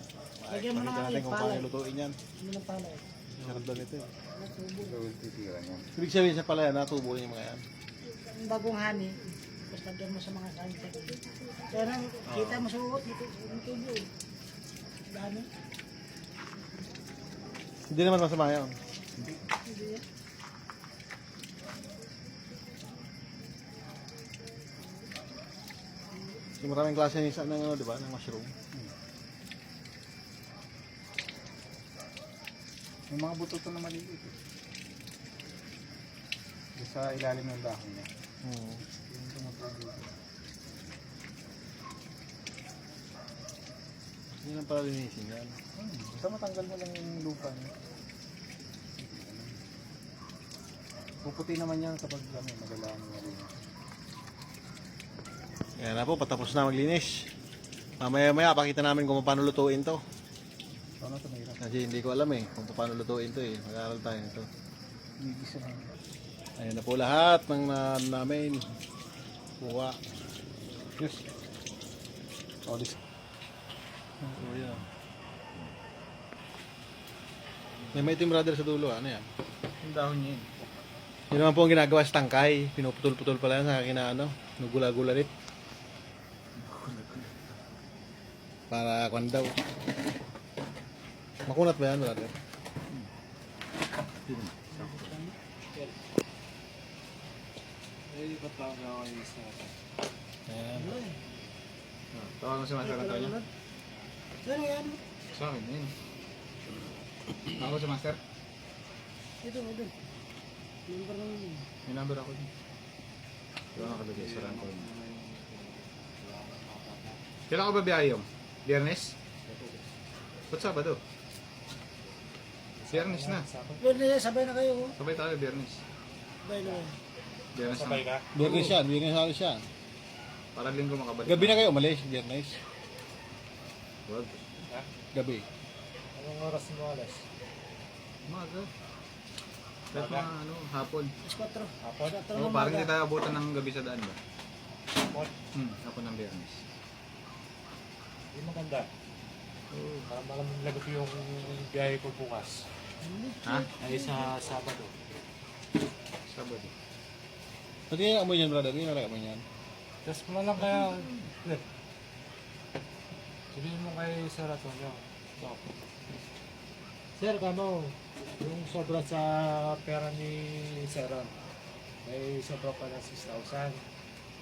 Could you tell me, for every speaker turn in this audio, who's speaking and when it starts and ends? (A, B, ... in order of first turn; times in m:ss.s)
0:00.4-0:02.2 A
0:00.5-0:01.7 B
0:02.4-0:03.1 B
0:03.3-0:03.9 C
0:03.4-0:04.1 A
0:04.4-0:05.0 B
0:04.8-0:05.9 C
0:06.0-0:07.6 A
0:08.3-0:14.1 B
0:12.3-0:12.6 A
0:15.1-0:15.5 B
0:17.9-0:18.8 A
0:19.7-0:20.0 B
0:26.6-0:28.5 A
0:33.1-0:34.3 C
0:36.8-0:38.1 C
0:38.4-0:38.8 A
0:39.1-0:40.1 C
0:44.4-0:45.6 A
0:45.8-0:47.7 C
0:49.0-0:49.6 C
0:51.2-0:53.5 C
0:55.8-0:57.3 A
0:58.0-1:00.0 A
1:01.0-1:01.6 C
1:01.6-1:04.5 A
1:05.2-1:05.9 C
1:06.6-1:08.7 A
1:09.6-1:10.0 A
1:11.0-1:11.2 C
1:12.7-1:13.0 C
1:14.2-1:14.8 A
1:17.9-1:19.3 A
1:19.8-1:20.5 C
1:21.3-1:25.3 A
1:26.6-1:27.3 C
1:28.7-1:29.6 A
1:31.5-1:32.4 A
1:34.3-1:35.1 A
1:34.8-1:35.3 B
1:38.1-1:39.7 D
1:40.5-1:41.0 A
1:40.8-1:41.2 B
1:42.1-1:43.4 C
1:42.8-1:43.5 B
1:44.4-1:45.0 B
1:45.3-1:45.9 C
1:47.5-1:48.2 C
1:49.4-1:49.9 B
1:50.9-1:51.7 B
1:51.9-1:52.5 C
1:53.8-1:54.9 C
1:53.8-1:57.2 D
1:57.5-1:59.2 C
2:00.5-2:01.0 C
2:02.8-2:03.9 D
2:02.9-2:03.5 C
2:03.8-2:05.0 B
2:05.0-2:05.8 C
2:06.4-2:07.0 B
2:07.5-2:08.8 C
2:07.6-2:08.3 D
2:08.3-2:09.7 A
2:10.6-2:11.6 C
2:11.2-2:12.6 A
2:14.1-2:14.5 C
2:15.1-2:15.5 A
2:16.2-2:17.2 D
2:18.3-2:18.7 C
2:19.9-2:21.1 C
2:21.2-2:22.9 B
2:21.8-2:22.2 D
2:22.3-2:24.2 C
2:25.1-2:25.3 D
2:25.6-2:26.6 C
2:28.3-2:28.9 D
2:29.7-2:30.1 C
2:30.1-2:32.7 D
2:33.0-2:34.3 B
2:33.4-2:33.7 C
2:33.8-2:35.0 D
2:36.3-2:36.7 C
2:37.9-2:39.4 A
2:40.0-2:41.6 D
2:40.7-2:41.1 C
2:43.5-2:45.6 D
2:47.2-2:51.3 D
2:52.0-2:53.8 D